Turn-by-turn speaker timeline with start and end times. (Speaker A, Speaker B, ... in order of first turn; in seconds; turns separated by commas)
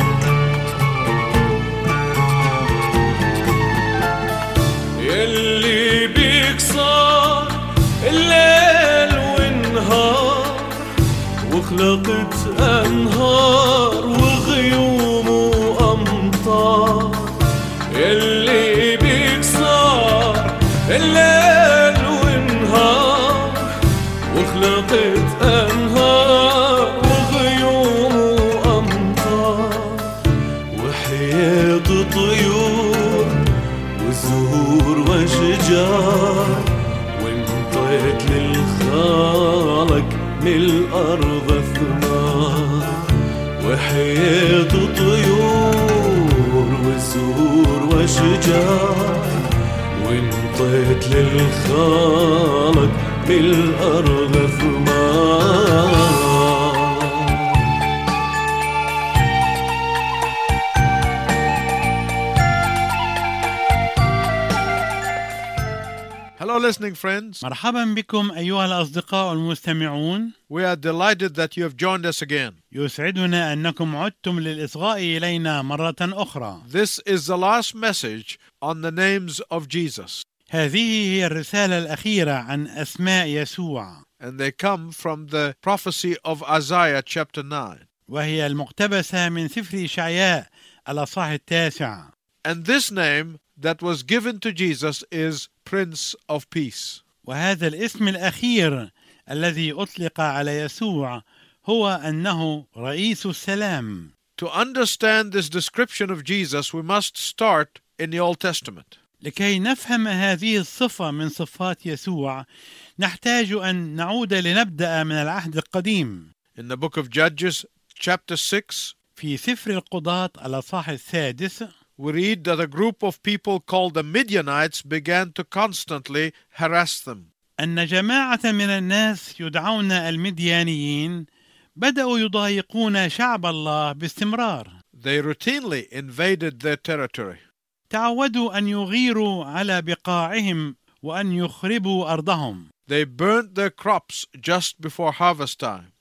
Speaker A: 5.0-10.9, Speaker A: 11.4-23.7, Speaker A: 24.3-30.1, Speaker A: 30.7-33.4, Speaker A: 34.0-43.0, Speaker A: 43.6-49.4, Speaker A: 50.0-57.5, Speaker B: 66.4-67.4, Speaker C: 67.4-70.3, Speaker B: 70.5-72.5, Speaker C: 72.7-76.6, Speaker B: 76.6-80.2, Speaker C: 80.5-84.0, Speaker B: 84.2-87.8, Speaker C: 88.1-92.1, Speaker B: 92.4-97.0, Speaker C: 97.2-104.1, Speaker B: 104.4-109.0, Speaker C: 109.2-112.4, Speaker C: 113.0-116.3, Speaker B: 116.5-118.9, Speaker C: 119.2-121.7, Speaker B: 122.0-127.3, Speaker C: 127.6-131.2, Speaker C: 131.8-134.7, Speaker B: 134.9-137.4, Speaker C: 137.9-142.7, Speaker B: 142.9-145.9